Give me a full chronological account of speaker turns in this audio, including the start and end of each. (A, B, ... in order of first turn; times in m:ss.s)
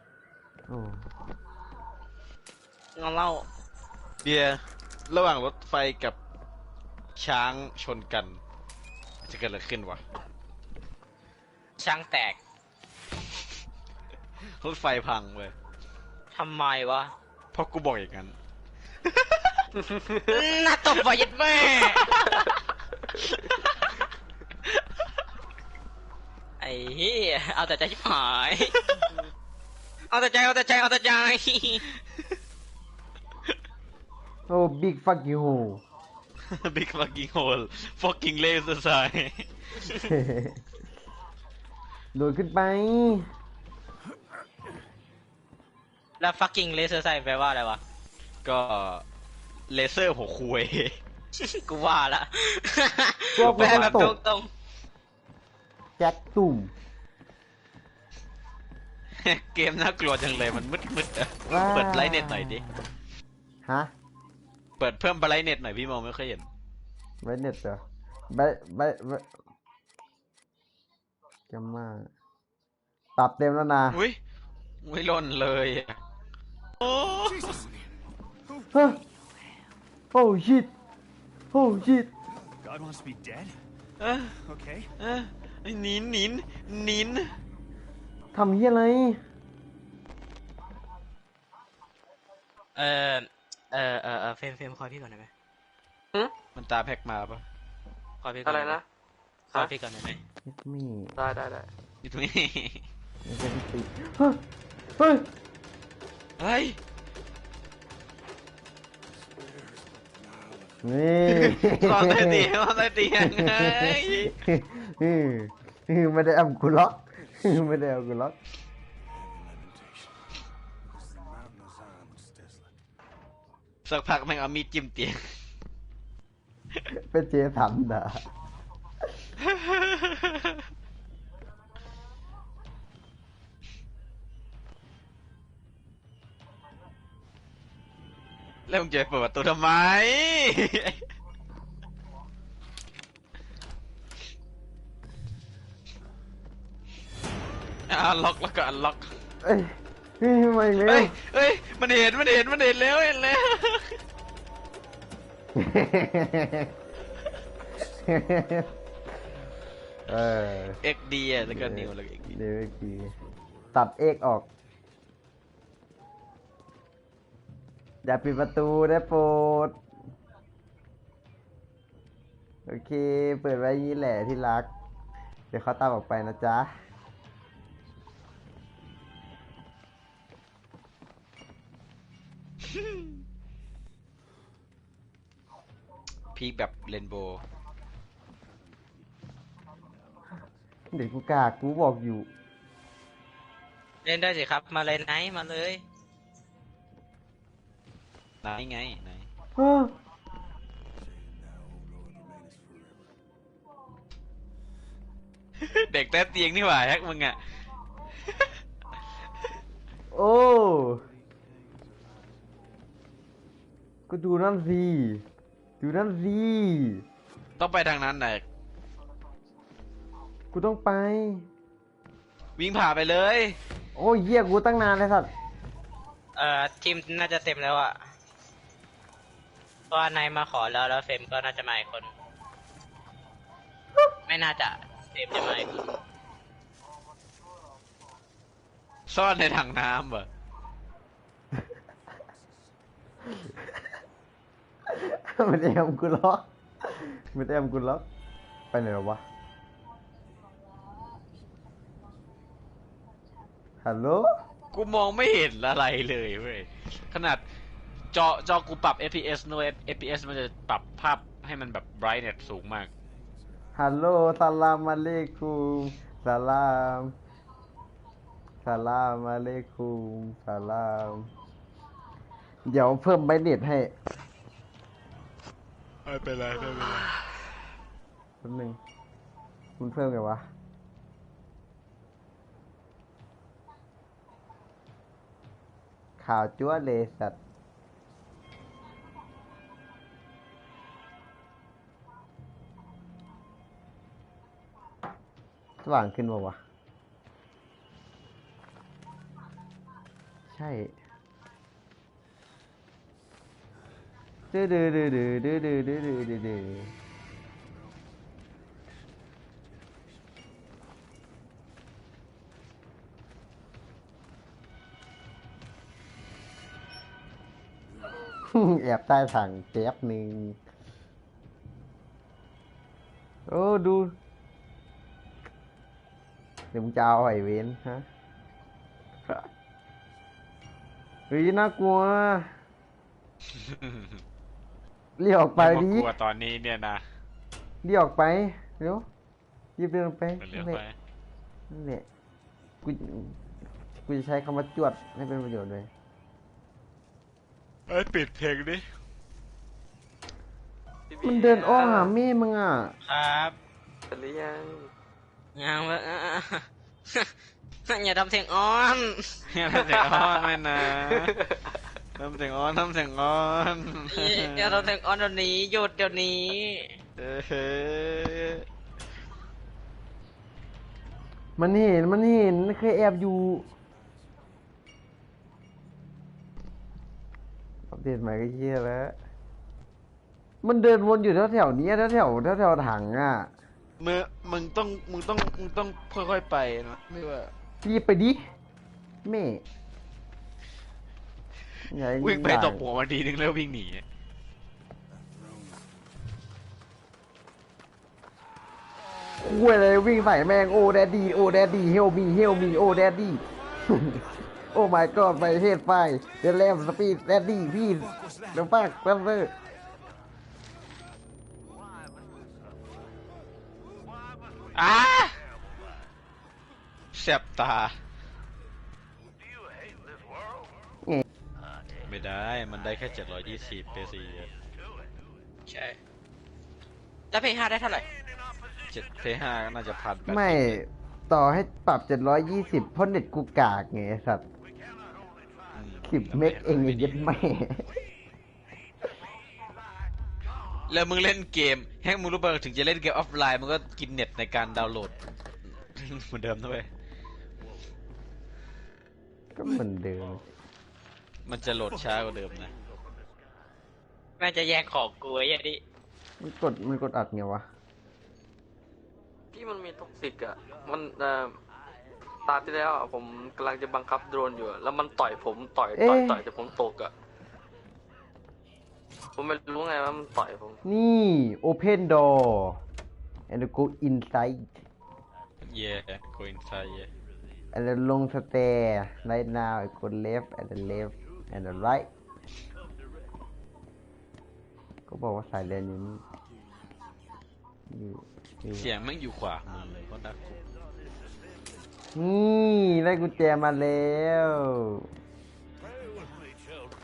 0:00.7-0:01.0 A
0:03.0-0:03.4 B
0:04.2-0:06.2 C
0:07.2-0:08.4 C
0:09.2-0:10.0 C
0:11.8-0:12.4 B
0:14.5-0:15.5 C
0:16.3-0:17.1 B
0:17.5-0:18.3 C
0:19.0-0:19.7 C
0:20.2-0:22.2 B
0:22.1-0:22.5 C
0:26.6-0:28.7 B
0:30.1-0:31.8 B
0:34.5-0:35.8 A
0:36.4-0:40.1 C
0:40.0-0:40.6 A
0:42.1-0:43.3 A
0:46.2-0:47.8 B
0:48.4-0:49.0 C
0:49.7-0:51.0 C
0:51.3-0:54.5 B
0:53.4-0:54.2 A
0:53.4-0:54.1 C
0:56.0-0:56.7 A
0:59.2-1:02.6 C
1:01.4-1:02.6 A
1:03.6-1:03.9 A
1:04.8-1:06.5 C
1:07.2-1:09.3 A
1:11.5-1:12.1 A
1:13.2-1:14.0 A
1:13.9-1:14.2 C
1:14.8-1:16.0 C
1:16.8-1:17.4 C
1:17.2-1:17.9 D
1:18.5-1:18.8 D
1:18.7-1:19.0 A
1:20.1-1:20.7 A
1:21.5-1:22.1 A
1:22.3-1:23.6 D
1:24.0-1:24.3 C
1:24.3-1:24.9 D
1:25.0-1:27.4 C
1:28.3-1:29.2 A
1:32.8-1:35.3 B
1:36.5-1:37.4 C
1:38.2-1:38.8 B
1:38.4-1:38.8 E
1:39.5-1:40.2 B
1:40.4-1:41.1 A
1:41.2-1:41.7 E
1:42.0-1:42.8 C
1:43.2-1:44.4 A
1:45.0-1:45.3 A
1:46.4-1:46.8 C
1:49.1-1:51.0 D
1:50.8-1:58.4 A
1:51.3-1:54.4 C
1:57.2-1:57.8 D
1:59.1-2:00.3 D
2:00.9-2:02.7 D
2:03.8-2:05.2 C
2:06.9-2:08.2 A
2:09.4-2:10.5 C
2:18.7-2:21.0 C
2:27.9-2:29.1 C
2:29.4-2:31.1 A
2:30.8-2:34.0 C
2:35.5-2:36.7 A
2:37.1-2:38.4 D
2:38.0-2:38.7 A
2:40.1-2:40.8 A
2:40.8-2:42.3 C
2:41.4-2:43.1 A
2:43.0-2:43.8 D
2:43.7-2:44.5 A
2:48.0-2:49.8 A
2:52.7-2:54.7 A
2:55.5-2:56.7 A
3:06.3-3:07.4 C
3:10.0-3:10.4 D
3:10.9-3:12.3 A
3:14.0-3:15.8 B
3:18.4-3:19.3 C
3:19.6-3:19.9 A
3:20.9-3:23.1 D
3:25.6-3:27.4 C
3:30.1-3:31.0 A
3:31.1-3:32.5 D
3:34.1-3:35.2 A
3:35.8-3:37.0 A
3:37.6-3:38.4 C
3:40.5-3:41.5 A
3:42.6-3:43.6 C
3:44.0-3:45.3 A
3:46.4-3:48.0 B
3:49.9-3:52.1 B
3:54.3-3:55.9 B
3:59.1-4:00.3 C
4:02.2-4:03.6 D
4:04.9-4:08.0 A
4:08.7-4:09.2 A
4:13.8-4:14.3 A
4:14.7-4:17.4 C
4:18.1-4:22.9 C
4:22.8-4:23.9 D
4:23.7-4:27.1 A
4:28.6-4:31.3 A
4:32.6-4:33.9 A
4:36.0-4:37.1 C
4:38.4-4:38.8 A
4:39.8-4:40.5 A
4:46.2-4:47.4 A
4:55.8-4:56.6 A
5:00.5-5:00.9 A
5:04.5-5:06.9 A
5:09.6-5:10.3 D
5:18.4-5:20.6 A
5:23.5-5:24.1 A
5:26.7-5:28.1 A
5:31.3-5:32.5 A
5:33.5-5:34.2 C
5:35.2-5:36.1 A
5:35.6-5:37.0 C
5:37.8-5:39.0 A
5:39.8-5:40.8 A
5:40.4-5:40.9 C
5:41.7-5:42.0 A
5:42.8-5:43.4 A
5:44.0-5:45.9 A
5:47.9-5:48.8 C
5:51.1-5:52.1 E
5:51.2-5:53.0 A
5:53.0-5:53.6 B
5:54.1-5:54.9 E
5:55.6-5:57.3 B
5:57.9-5:59.4 B
5:59.5-6:01.3 C
5:59.8-6:00.4 E
6:01.0-6:01.6 E
6:02.2-6:04.9 C
6:04.1-6:07.0 B
6:07.2-6:08.6 C
6:11.6-6:13.6 A
6:13.6-6:14.7 D
6:17.9-6:19.2 A
6:20.6-6:23.5 A
6:24.0-6:27.5 C
6:27.8-6:28.4 A
6:29.2-6:29.6 A
6:31.9-6:32.8 A
6:32.2-6:34.0 C
6:35.1-6:36.0 D
6:39.4-6:44.2 A
6:43.7-6:45.6 D
6:44.7-6:49.5 A
6:47.7-6:48.8 D
6:54.7-6:55.4 C
6:57.1-6:57.9 C
7:02.0-7:04.5 C
7:05.7-7:06.0 B
7:07.3-7:08.1 B
7:08.9-7:10.8 C
7:10.2-7:14.4 A
7:15.7-7:17.3 C
7:16.0-7:17.8 A
7:20.9-7:25.1 C
7:25.9-7:26.9 C
7:29.5-7:30.4 A
7:31.4-7:32.7 C
7:31.8-7:32.2 D
7:34.4-7:35.8 B
7:36.4-7:37.6 A
7:39.5-7:41.5 E
7:42.4-7:47.1 E
7:45.9-7:46.4 A
7:49.4-7:50.8 E
7:50.8-7:52.8 A
7:53.5-7:54.8 A
7:55.6-7:57.1 C
7:57.7-8:02.1 A
8:05.1-8:06.2 A
8:07.9-8:08.9 A
8:08.7-8:10.6 C
8:12.1-8:15.1 A
8:15.8-8:16.7 D